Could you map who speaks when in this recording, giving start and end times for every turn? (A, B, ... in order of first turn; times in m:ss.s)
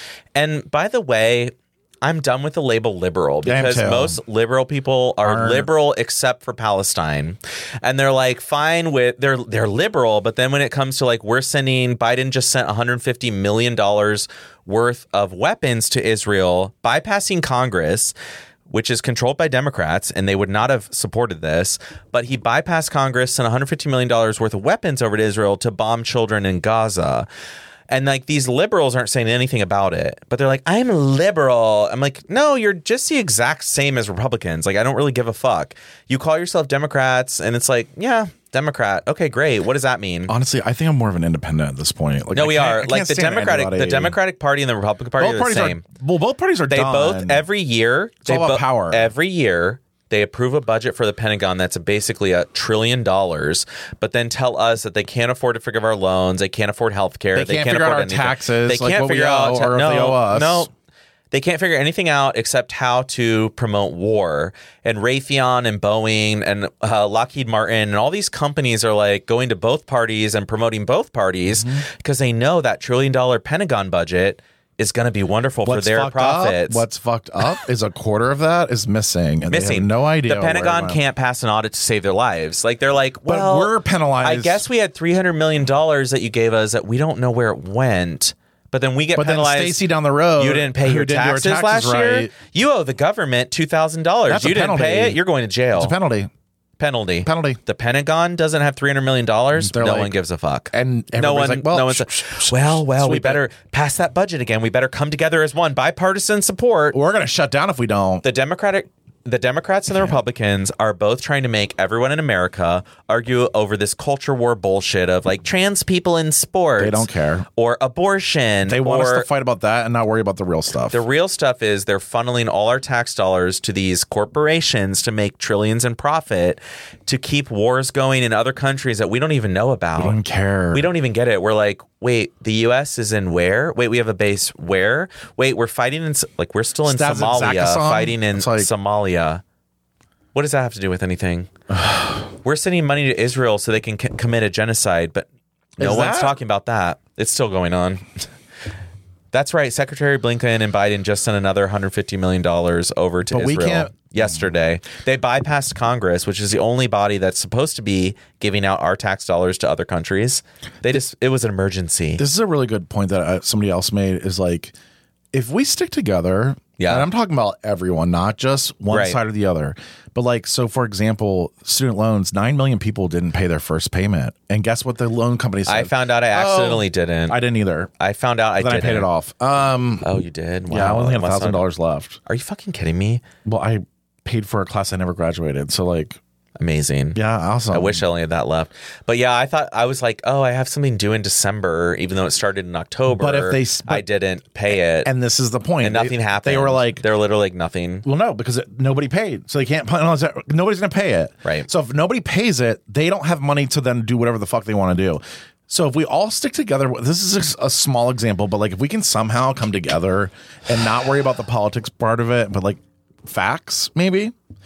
0:00.3-0:18.1 A
0:03.4-0:04.2 B
0:05.2-0:05.7 B
0:18.7-0:27.3 A
0:27.9-0:40.3 A
0:40.3-0:44.2 B
0:42.3-0:45.8 A
0:45.2-0:47.4 B
0:46.7-1:00.7 A
0:48.2-0:49.1 B
0:57.3-1:00.7 B
1:01.3-1:16.8 A
1:11.5-1:11.8 B
1:15.6-1:21.0 B
1:19.5-1:35.9 A
1:23.2-1:24.6 B
1:29.1-1:32.3 B
1:34.3-1:35.2 B
1:35.7-1:36.3 B
1:36.8-1:47.0 A
1:37.2-1:37.6 B
1:39.5-1:40.2 B
1:40.7-1:43.4 B
1:46.9-1:48.2 B
1:48.2-1:59.3 A
1:56.8-1:57.4 B
1:58.6-2:01.0 B
2:00.9-2:10.2 A
2:10.0-2:10.9 B
2:10.7-2:19.4 A
2:16.8-2:18.7 B
2:20.3-2:21.5 A
2:21.7-2:22.2 B
2:22.4-2:25.2 A
2:25.8-2:26.4 B
2:25.8-2:28.2 A
2:29.3-2:42.2 A
2:33.3-2:34.4 B
2:42.2-2:44.7 B
2:45.3-2:57.9 B
2:46.8-2:47.1 A
2:48.9-2:49.2 A
2:55.6-2:57.4 A
2:58.0-2:59.1 A
2:58.6-3:00.1 B
3:00.0-3:01.7 A
3:00.7-3:02.2 B
3:02.2-3:03.2 A
3:03.4-3:06.2 B
3:06.6-3:07.2 A
3:07.1-3:08.0 B
3:07.7-3:15.1 A
3:13.1-3:14.0 B
3:14.7-3:17.0 B
3:15.8-3:18.0 A
3:18.0-3:34.3 B
3:21.4-3:21.7 A